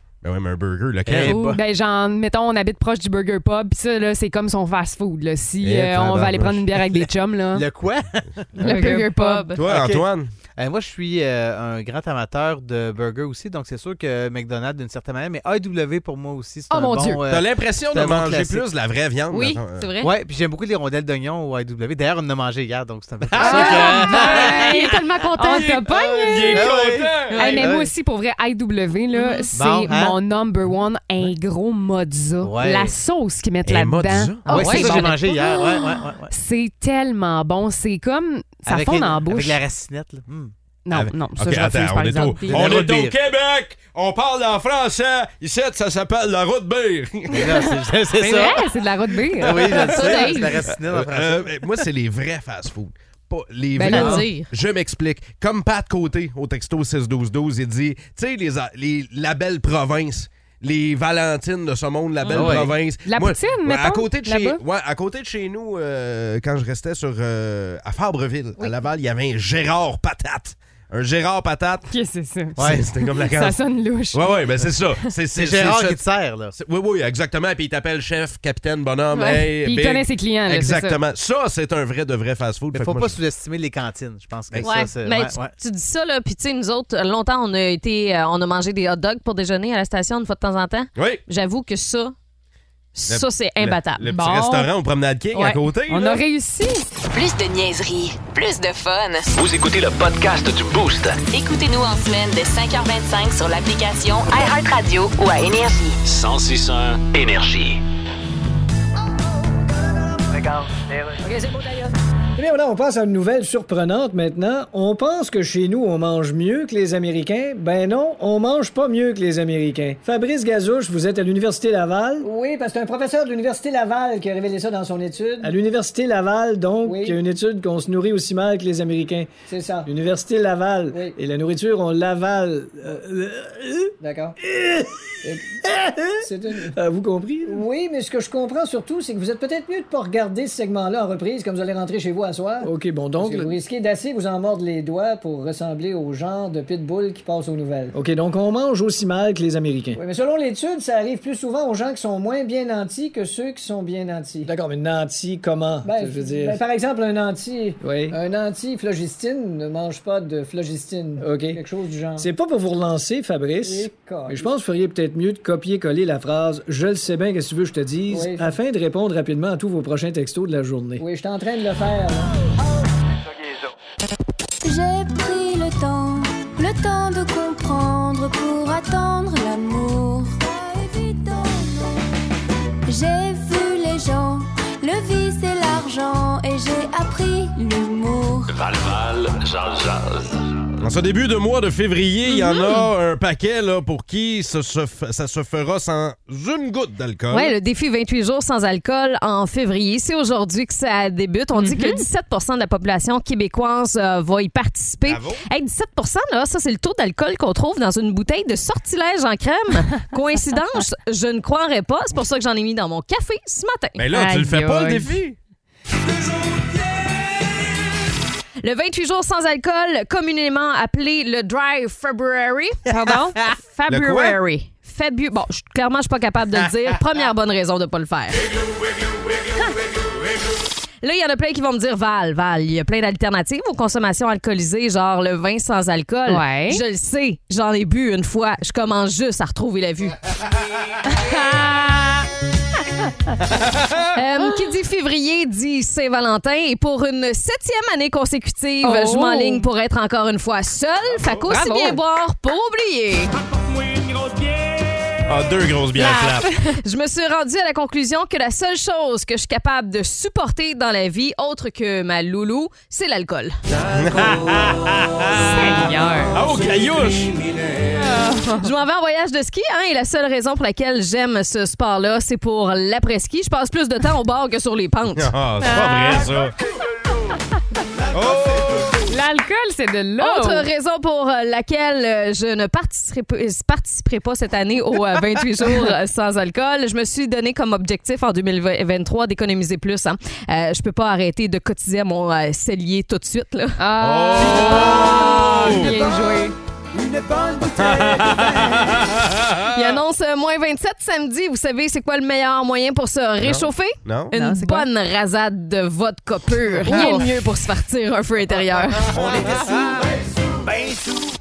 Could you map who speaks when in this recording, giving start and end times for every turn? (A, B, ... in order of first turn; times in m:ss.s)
0:00.2-0:01.6 A
0:01.0-0:01.5 B
0:01.2-0:01.6 C
0:01.4-0:07.6 D
0:05.6-0:06.8 A
0:07.5-0:08.9 B
0:08.6-0:09.6 C
0:08.6-0:09.5 D
0:09.5-0:10.3 A
0:09.6-0:10.0 B
0:10.6-0:18.7 B
0:16.7-0:17.2 D
0:17.3-0:19.9 A
0:19.3-0:20.1 C
0:20.0-0:25.0 B
0:23.3-0:24.7 A
0:23.4-0:26.7 D
0:25.4-0:27.7 A
0:26.5-0:27.9 B
0:27.3-0:35.5 D
0:29.1-0:29.5 C
0:29.5-0:30.2 B
0:32.4-0:32.9 B
0:33.6-0:35.0 A
0:34.5-0:35.7 C
0:34.5-0:36.3 B
0:36.3-0:39.6 D
0:38.6-0:40.5 B
0:40.8-0:42.8 D
0:40.9-0:47.6 A
0:42.4-0:43.1 B
0:47.3-0:51.7 B
0:47.4-0:50.6 D
0:50.0-0:50.4 C
0:50.7-1:11.9 A
0:53.8-0:54.2 D
0:53.8-0:54.5 C
1:02.2-1:02.7 C
1:02.3-1:02.7 B
1:03.0-1:04.6 D
1:11.9-1:14.7 D
1:12.6-1:23.2 A
1:12.6-1:12.9 B
1:15.3-1:16.5 B
1:19.1-1:19.4 C
1:19.6-1:21.0 D
1:22.7-1:25.6 B
1:24.5-1:24.8 A
1:24.6-1:32.1 C
1:31.0-1:31.2 A
1:32.9-1:34.1 C
1:33.1-1:36.2 A
1:34.1-1:34.7 D
1:35.3-1:35.6 C
1:35.9-1:36.8 D
1:37.1-1:39.3 E
1:39.3-1:41.2 F
1:41.2-1:46.0 E
1:46.0-1:47.8 F
1:52.4-2:02.3 G
2:02.4-2:04.7 H
2:05.3-2:13.4 G
2:15.2-2:17.7 G
2:17.8-2:27.7 H
2:22.6-2:23.6 G
2:27.8-2:30.0 G
2:30.0-2:34.6 H
2:34.3-2:36.7 G
2:36.4-2:37.6 H
2:37.7-2:38.2 G
2:38.1-2:41.3 H
2:41.1-2:51.0 G
2:51.0-2:51.8 H
2:54.6-3:02.0 I
3:02.8-3:08.5 I
3:08.5-3:10.5 F
3:10.8-3:17.5 A
3:17.3-3:34.0 C
3:21.6-3:22.0 D
3:25.0-3:25.4 A
3:34.0-3:35.4 A
3:34.1-3:35.2 D
3:38.6-3:48.5 C
3:42.9-3:43.4 D
3:43.9-3:44.4 A
3:51.0-4:00.2 C
3:56.3-3:56.8 D
4:01.1-4:02.2 D
4:04.1-4:13.3 C
4:08.8-4:09.7 D
4:11.1-4:11.5 A
4:11.5-4:12.0 D
4:15.2-4:16.5 A
4:16.0-4:16.2 C
4:16.8-4:23.6 C
4:23.9-4:25.8 A
4:25.3-4:26.4 D
4:26.3-4:27.4 A
4:28.1-4:28.5 D
4:28.5-4:35.3 C
4:35.1-4:36.5 A
4:35.6-4:36.2 D
4:38.1-4:39.0 A
4:39.1-4:40.6 D
4:40.2-4:53.8 C
4:53.8-4:56.5 D
4:54.0-4:56.0 A
4:54.5-4:55.1 C
4:57.8-5:00.0 A
4:59.6-5:09.8 C
5:03.4-5:04.3 A
5:04.3-5:04.9 D
5:06.8-5:07.2 A
5:06.9-5:07.2 D
5:09.1-5:09.8 A